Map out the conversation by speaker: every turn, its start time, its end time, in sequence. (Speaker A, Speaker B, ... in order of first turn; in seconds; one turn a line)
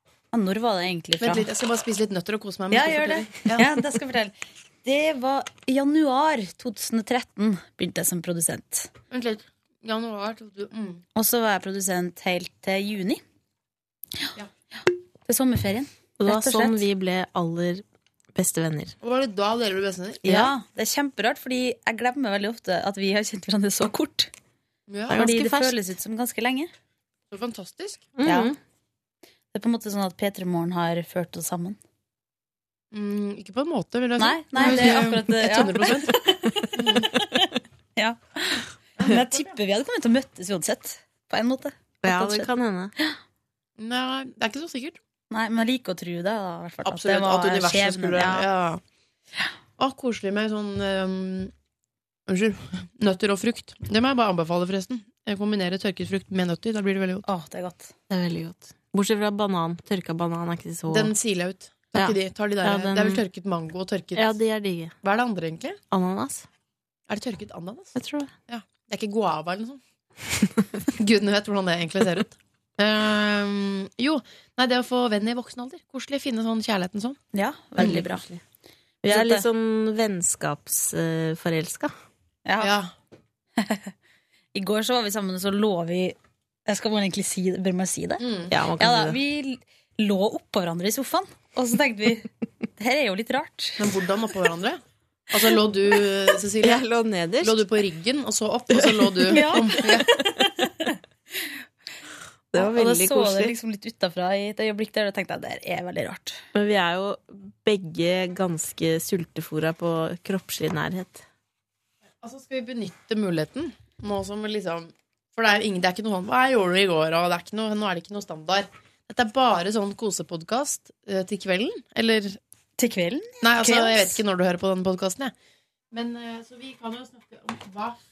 Speaker A: 0.3-1.5
Speaker B: 1.2-3.8
Speaker A: 2.7-8.9
Speaker B: 9.1-11.0
Speaker A: 11.2-13.2
Speaker A: 15.3-16.8
Speaker C: 16.2-17.8
Speaker C: 18.4-18.9
Speaker B: 19.0-20.3
Speaker C: 20.3-20.5
Speaker A: 20.3-24.3
Speaker B: 24.9-25.2
Speaker C: 25.1-25.8
Speaker A: 25.1-26.7
Speaker B: 27.3-28.1
Speaker C: 28.2-28.6
Speaker A: 28.2-28.5
Speaker A: 29.5-31.8
Speaker B: 32.9-37.1
Speaker A: 34.2-41.9
Speaker C: 34.6-35.0
Speaker B: 39.0-39.5
Speaker C: 42.0-42.9
Speaker B: 42.1-42.4
Speaker B: 43.8-45.0
Speaker A: 45.3-48.5
Speaker B: 46.9-48.8
Speaker B: 49.8-51.5
Speaker B: 52.3-57.3
Speaker A: 57.3-57.9
Speaker C: 58.1-61.1
Speaker B: 60.9-64.3
Speaker C: 61.9-63.2
Speaker C: 64.2-64.9
Speaker B: 65.0-65.8
Speaker C: 65.9-66.5
Speaker B: 67.1-67.9
Speaker C: 68.0-68.3
Speaker B: 68.5-69.8
Speaker B: 70.9-77.2
Speaker A: 77.3-78.2
Speaker C: 77.8-78.4
Speaker C: 79.0-81.9
Speaker A: 79.0-79.5
Speaker A: 82.5-82.8
Speaker B: 82.6-82.9
Speaker A: 83.6-83.9
Speaker A: 84.5-88.2
Speaker B: 88.2-88.5
Speaker C: 88.5-89.2
Speaker A: 88.8-93.8
Speaker B: 93.8-96.8
Speaker C: 96.6-97.7
Speaker B: 97.4-100.2
Speaker A: 99.2-101.5
Speaker C: 102.5-103.6
Speaker A: 102.5-106.4
Speaker C: 106.5-111.2
Speaker B: 112.2-122.4
Speaker A: 122.8-124.2
Speaker B: 123.4-125.3
Speaker B: 125.9-128.0